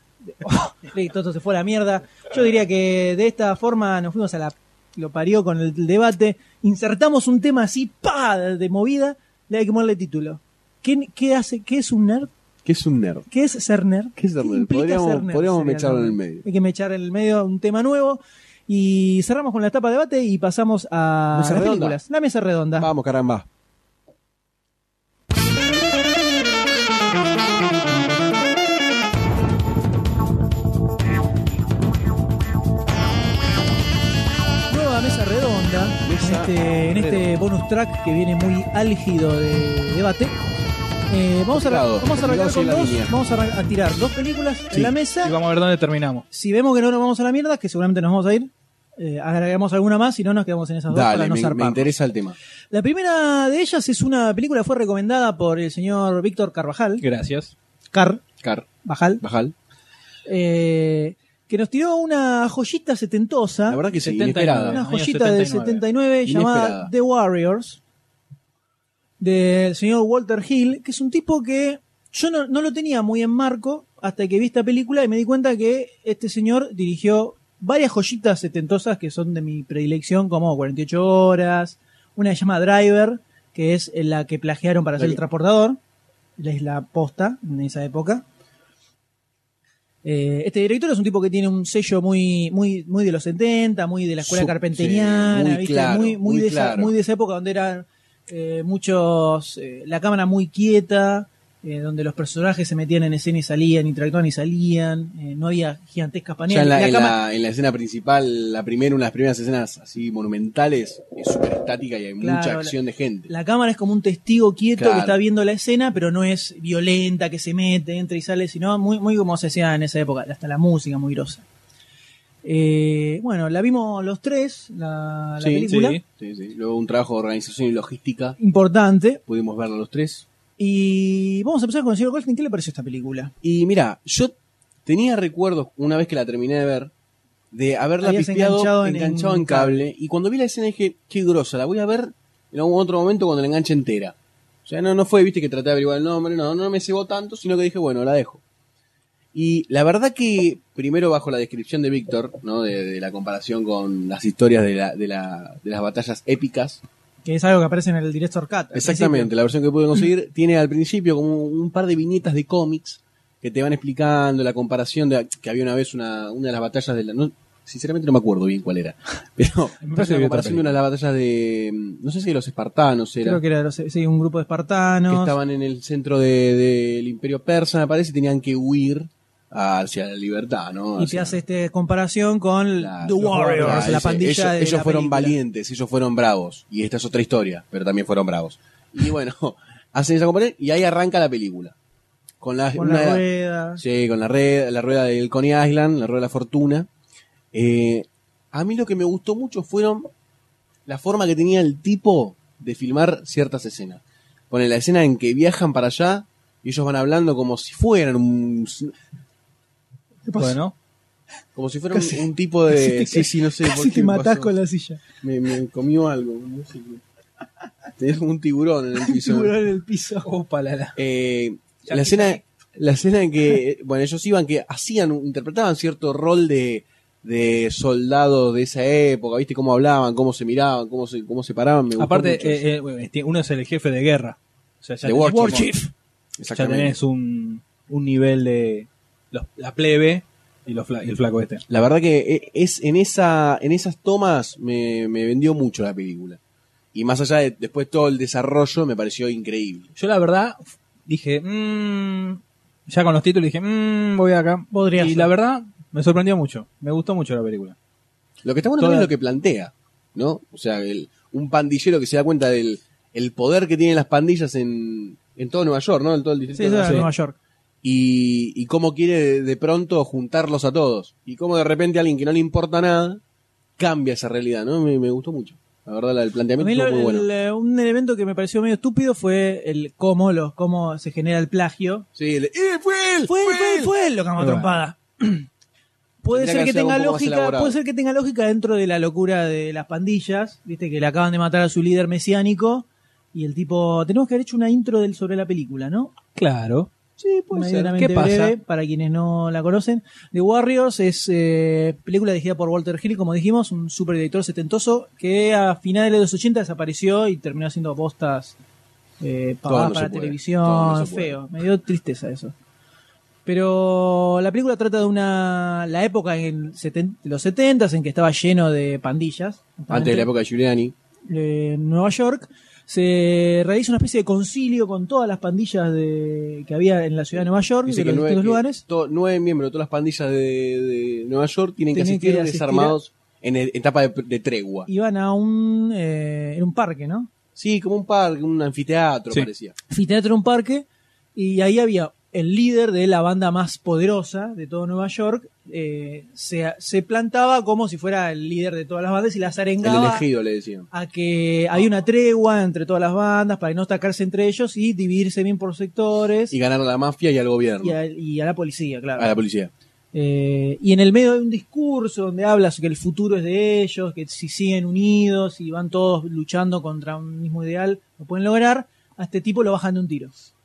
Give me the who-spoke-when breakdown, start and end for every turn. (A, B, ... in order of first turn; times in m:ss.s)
0:00.3-0:12.3 A
0:12.6-0:13.3 B
0:13.3-0:22.9 A
0:14.2-0:16.4 B
0:21.3-0:22.0 B
0:22.8-0:23.5 B
0:34.7-0:40.4 A
0:36.0-0:37.3 B
0:41.1-0:45.4 A
0:41.5-0:43.2 B
0:44.7-0:46.2 C
0:46.3-0:51.9 A
0:50.9-0:52.4 B
0:52.7-0:57.0 A
0:57.0-0:57.5 C
0:57.9-0:58.2 A
0:58.4-0:58.7 B
0:58.8-0:59.2 A
0:59.2-0:59.5 B
1:00.3-1:03.8 A
1:03.7-1:04.8 B
1:04.0-1:05.8 C
1:04.7-1:07.8 A
1:06.3-1:06.9 B
1:09.2-1:25.8 A
1:26.4-1:28.2 A
1:30.0-1:47.2 A
1:34.2-1:36.9 B
1:46.5-1:53.3 B
1:52.2-1:52.8 A
1:53.3-2:01.4 A
1:54.8-1:55.2 B
2:02.4-2:06.0 A
2:05.4-2:08.4 B
2:05.7-2:06.0 C
2:08.4-2:09.2 A
2:09.3-2:10.3 B
2:10.6-2:13.3 A
2:13.4-2:14.3 B
2:14.9-2:16.9 B
2:17.5-2:24.2 B
2:18.0-2:19.8 A
2:24.7-2:28.4 B
2:29.3-2:36.8 B
2:37.2-2:39.3 A
2:38.7-2:53.4 B
2:49.8-2:50.8 C
2:53.2-2:55.4 A
2:55.1-3:01.4 B
3:01.0-3:05.4 A
3:02.8-3:11.8 B
3:03.3-3:04.0 C
3:12.4-3:13.2 B
3:12.8-3:13.8 A
3:13.8-3:16.9 B
3:17.5-3:20.1 B
3:20.9-3:28.9 B
3:30.3-3:30.6 A
3:30.4-3:30.7 C
3:31.6-3:34.5 B
3:31.9-3:35.0 A
3:35.2-3:37.0 B
3:38.0-3:39.5 B
3:39.0-3:40.3 A
3:40.2-3:41.0 C
3:41.0-3:52.6 B
3:41.9-3:42.4 C
3:52.0-3:55.7 C
3:55.0-3:55.7 B
3:55.2-3:55.9 A
3:56.4-3:57.0 B
3:56.5-4:01.6 C
4:01.7-4:06.4 B
4:06.9-4:09.9 B
4:10.0-4:17.8 C
4:14.7-4:15.3 A
4:18.4-4:27.1 B
4:18.8-4:19.1 C
4:26.5-4:27.4 A
4:27.8-4:33.2 B
4:33.8-4:37.3 B
4:36.6-4:42.1 A
4:42.2-4:43.9 B
4:43.3-4:45.5 A
4:44.4-4:44.7 C
4:46.2-4:56.1 A
4:46.3-4:47.8 B
4:56.4-4:56.9 C
4:57.2-4:57.7 B
4:57.5-5:08.6 A
4:57.6-4:58.6 C
5:09.2-5:12.5 A
5:09.7-5:11.4 B
5:13.5-5:20.3 A
5:19.9-5:20.9 B
5:21.3-5:28.8 A
5:27.4-5:34.9 B
5:31.9-5:33.0 A
5:34.9-5:37.3 A
5:37.6-5:39.8 B
5:39.9-5:50.3 A
5:49.8-5:50.9 B
5:50.9-5:56.6 A
5:56.5-5:58.0 B
5:57.8-5:59.4 A
5:59.2-5:59.7 B
6:00.1-6:10.3 A